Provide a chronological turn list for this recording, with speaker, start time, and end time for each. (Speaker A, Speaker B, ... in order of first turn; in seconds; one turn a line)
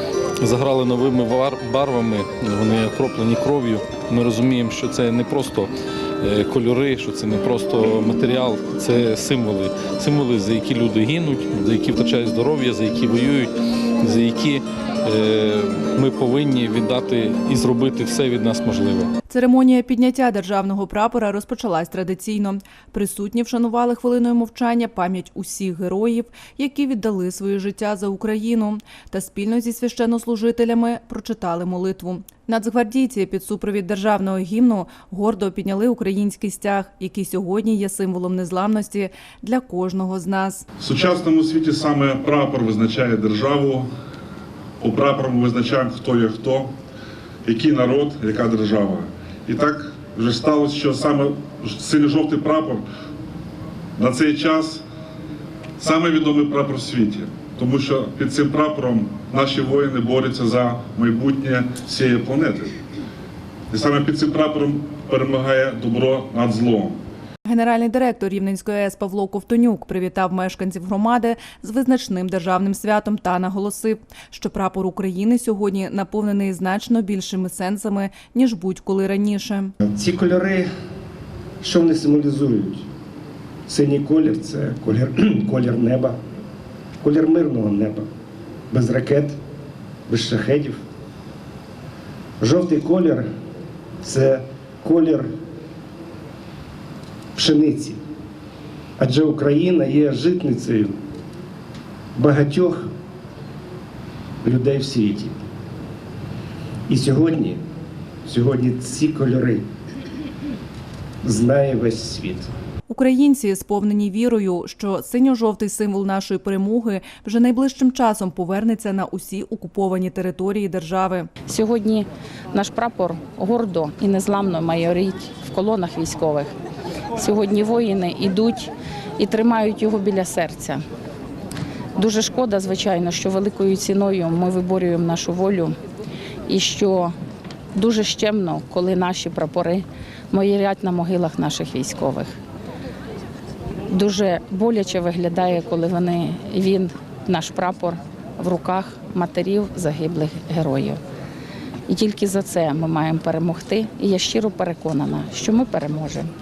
Speaker A: 0.4-19.1
Speaker B: 19.3-40.6
Speaker C: 40.8-43.9
Speaker C: 44.8-46.7
Speaker C: 47.4-52.8
Speaker C: 54.0-54.8
Speaker C: 55.8-62.8
Speaker C: 63.7-67.0
Speaker B: 67.4-79.7
Speaker D: 79.8-80.7
Speaker D: 81.6-82.9
Speaker D: 83.7-86.2
Speaker D: 87.0-88.1
Speaker D: 88.7-89.4
Speaker D: 90.1-90.8
Speaker D: 92.4-93.3
Speaker D: 94.0-95.3
Speaker D: 97.3-98.0
Speaker D: 99.0-101.0
Speaker D: 102.1-102.9
Speaker D: 104.4-105.3
Speaker D: 106.9-107.6
Speaker D: 108.2-109.6
Speaker D: 111.2-112.5
Speaker B: 112.9-121.3
Speaker E: 121.5-126.5
Speaker E: 127.2-130.8
Speaker E: 132.0-135.8
Speaker E: 136.5-137.1
Speaker E: 137.7-142.3
Speaker E: 143.9-151.0
Speaker E: 151.9-156.3